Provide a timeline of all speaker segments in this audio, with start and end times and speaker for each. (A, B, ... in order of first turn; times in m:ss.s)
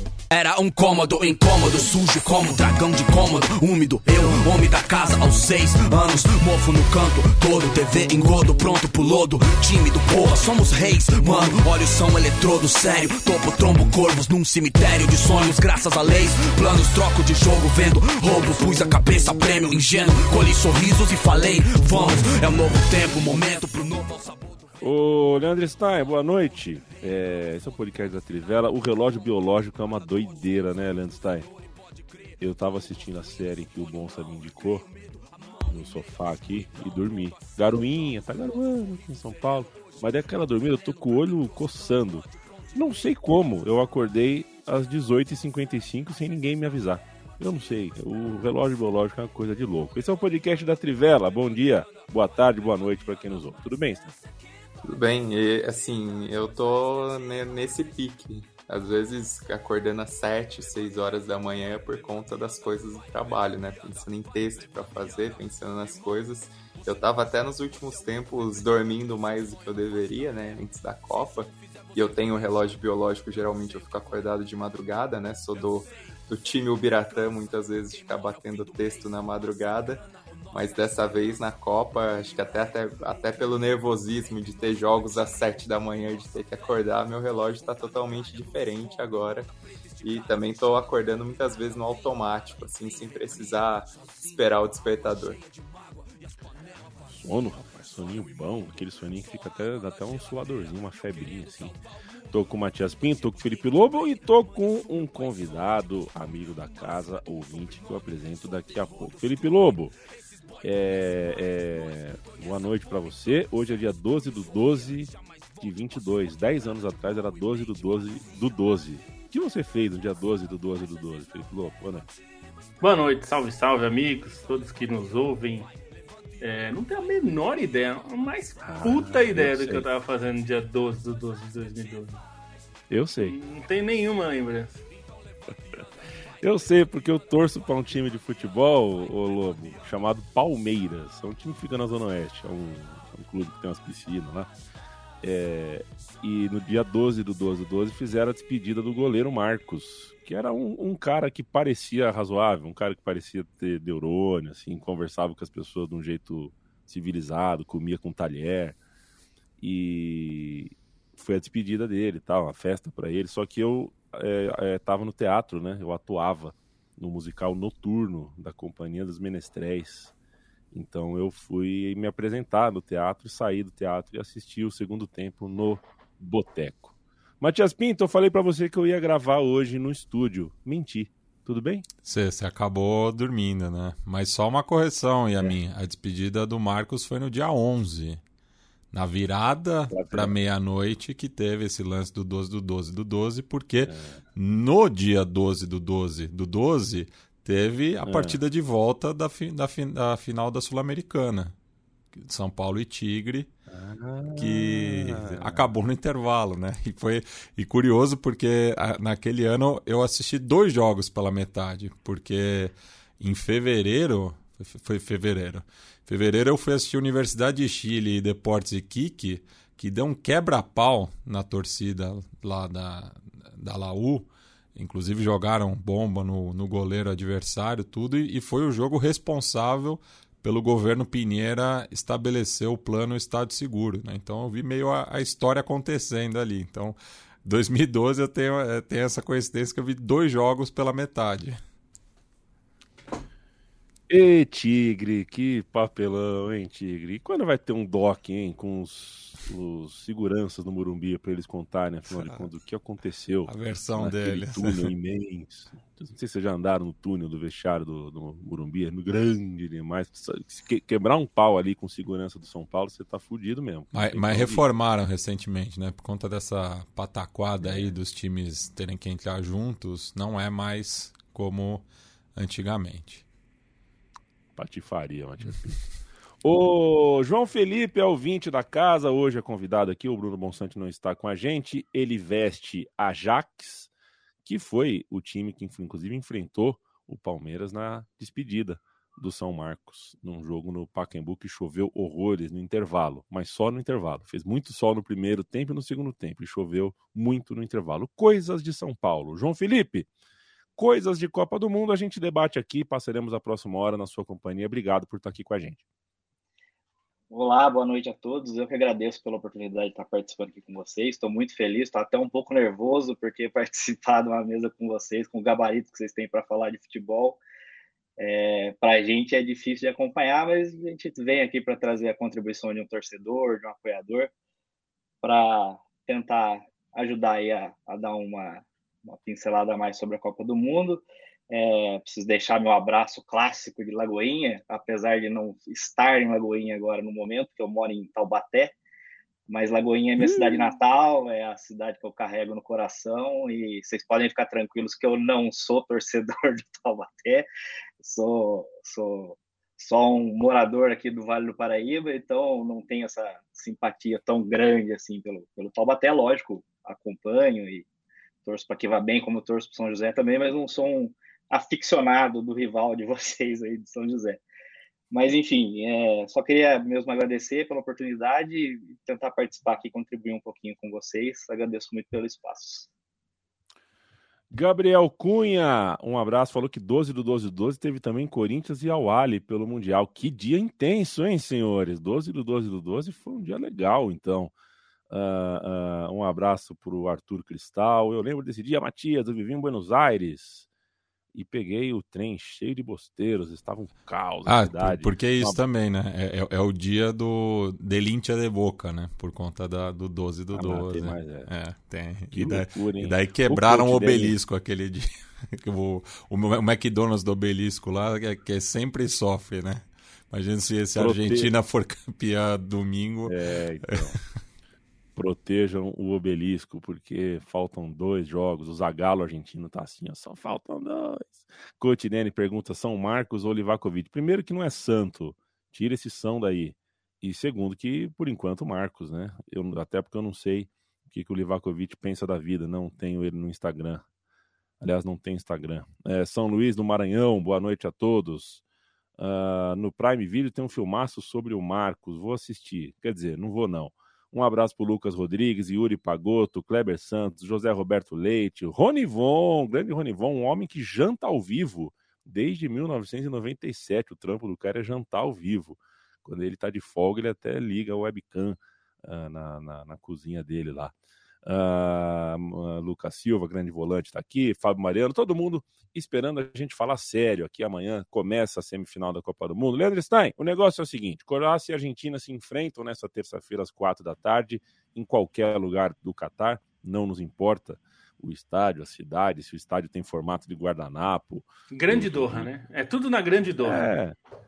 0:00.3-0:24.3 A
0:24.8-0:31.5 B
0:32.4-0:34.9 B
0:35.6-0:54.2 B
0:54.8-1:29.5 C
1:30.0-1:35.4 C
1:37.1-1:49.9 B
1:50.6-2:02.1 B
2:02.8-2:05.7 D
2:06.4-2:12.2 D
2:08.6-2:09.9 B
2:12.9-2:13.4 B
2:13.2-2:14.8 D
2:16.4-2:24.5 B
2:25.2-2:38.8 B
2:39.6-2:50.1 B
2:50.7-3:01.8 B
3:02.0-3:08.2 E
3:08.9-3:21.6 E
3:09.9-3:10.3 B
3:13.8-3:14.2 B
3:18.0-3:18.4 B
3:22.1-3:23.5 E
3:23.7-3:25.7 B
3:24.4-4:01.6 E
4:04.1-4:24.6 B
4:12.2-4:12.4 E
4:13.4-4:14.9 E
4:23.9-4:33.2 E
4:27.6-4:27.9 B
4:34.5-4:35.8 B
4:36.4-4:43.9 B
4:44.4-5:00.1 B
5:00.8-5:05.8 B
5:07.3-5:17.4 F
5:18.2-5:24.3 F
5:25.2-5:38.7 F
5:39.5-5:47.5 F
5:40.2-5:40.7 B
5:48.0-5:57.9 F
5:58.4-6:04.4 F
6:05.1-6:12.9 F
6:14.5-6:24.5 B
6:25.1-6:30.7 B
6:31.3-6:35.6 B
6:34.4-6:53.3 E
6:40.5-6:41.5 B
6:42.3-6:44.4 B
6:51.0-6:51.5 B
6:53.2-6:54.2 B
6:55.2-7:14.0 B
7:14.8-7:18.6 B
7:19.2-8:02.5 B
8:01.7-8:03.9 D
8:03.6-8:04.2 B